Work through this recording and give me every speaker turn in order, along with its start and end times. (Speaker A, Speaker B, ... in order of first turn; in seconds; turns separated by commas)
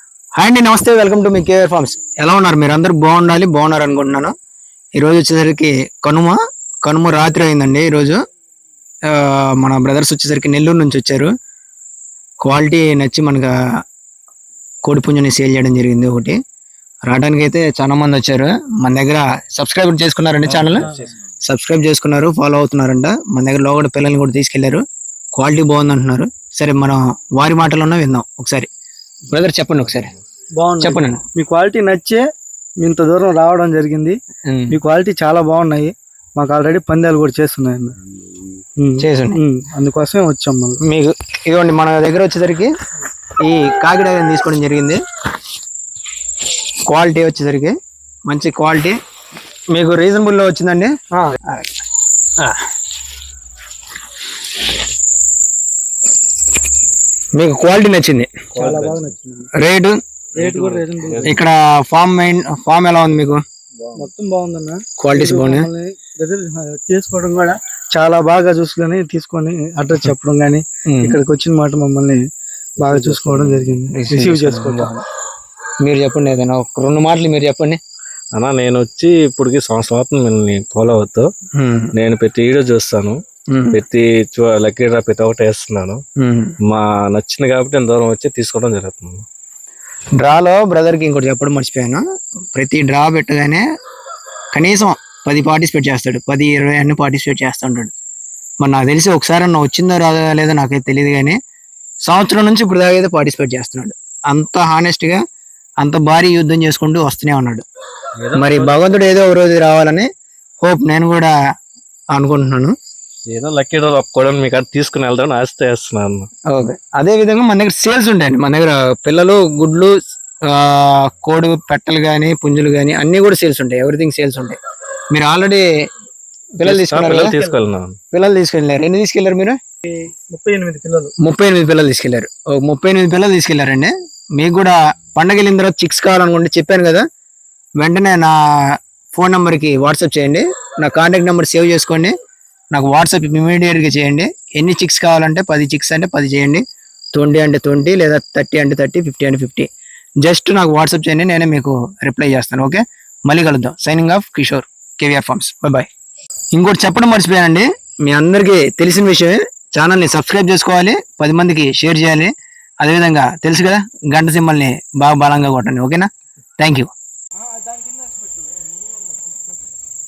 Speaker A: 0.4-4.3, Speaker A: 5.0-8.2, Speaker A: 9.1-11.3, Speaker A: 12.4-13.5, Speaker A: 14.9-16.4, Speaker A: 17.1-20.9, Speaker B: 20.4-21.1, Speaker A: 21.4-24.8, Speaker A: 25.4-28.7, Speaker A: 29.3-30.1, Speaker C: 30.6-32.2, Speaker A: 30.8-31.2, Speaker C: 32.8-34.2, Speaker A: 34.5-34.8, Speaker C: 34.7-38.0, Speaker C: 38.8-40.8, Speaker A: 39.0-39.4, Speaker A: 40.8-42.7, Speaker A: 43.4-45.0, Speaker A: 46.9-47.8, Speaker A: 48.3-49.0, Speaker A: 49.7-51.7, Speaker A: 57.4-58.3, Speaker B: 58.5-59.1, Speaker C: 58.6-59.5, Speaker A: 59.6-60.0, Speaker B: 60.4-61.4, Speaker C: 60.4-61.4, Speaker A: 61.2-63.4, Speaker B: 63.8-64.1, Speaker C: 64.0-72.2, Speaker A: 65.0-65.7, Speaker A: 70.9-71.2, Speaker C: 72.8-75.0, Speaker B: 72.8-73.8, Speaker A: 73.9-75.0, Speaker A: 75.8-77.8, Speaker B: 78.3-81.3, Speaker A: 81.6-81.9, Speaker B: 82.0-83.2, Speaker A: 83.5-83.8, Speaker B: 83.7-86.0, Speaker A: 86.2-86.5, Speaker B: 86.7-89.2, Speaker A: 90.2-92.0, Speaker A: 92.5-93.6, Speaker A: 94.5-97.9, Speaker A: 98.6-101.4, Speaker A: 102.1-105.2, Speaker A: 105.8-107.7, Speaker B: 108.2-108.8, Speaker A: 108.3-110.1, Speaker A: 110.6-111.3, Speaker A: 112.1-112.7, Speaker B: 113.3-116.3, Speaker A: 116.5-119.9, Speaker A: 120.5-124.6, Speaker A: 125.1-125.6, Speaker A: 126.6-127.3, Speaker B: 126.6-128.0, Speaker C: 127.1-127.6, Speaker A: 128.1-129.6, Speaker C: 129.9-131.1, Speaker A: 131.2-137.0, Speaker A: 137.8-142.1, Speaker A: 142.7-146.6, Speaker A: 147.1-149.7, Speaker A: 150.2-155.9, Speaker A: 156.5-166.9, Speaker C: 167.5-168.4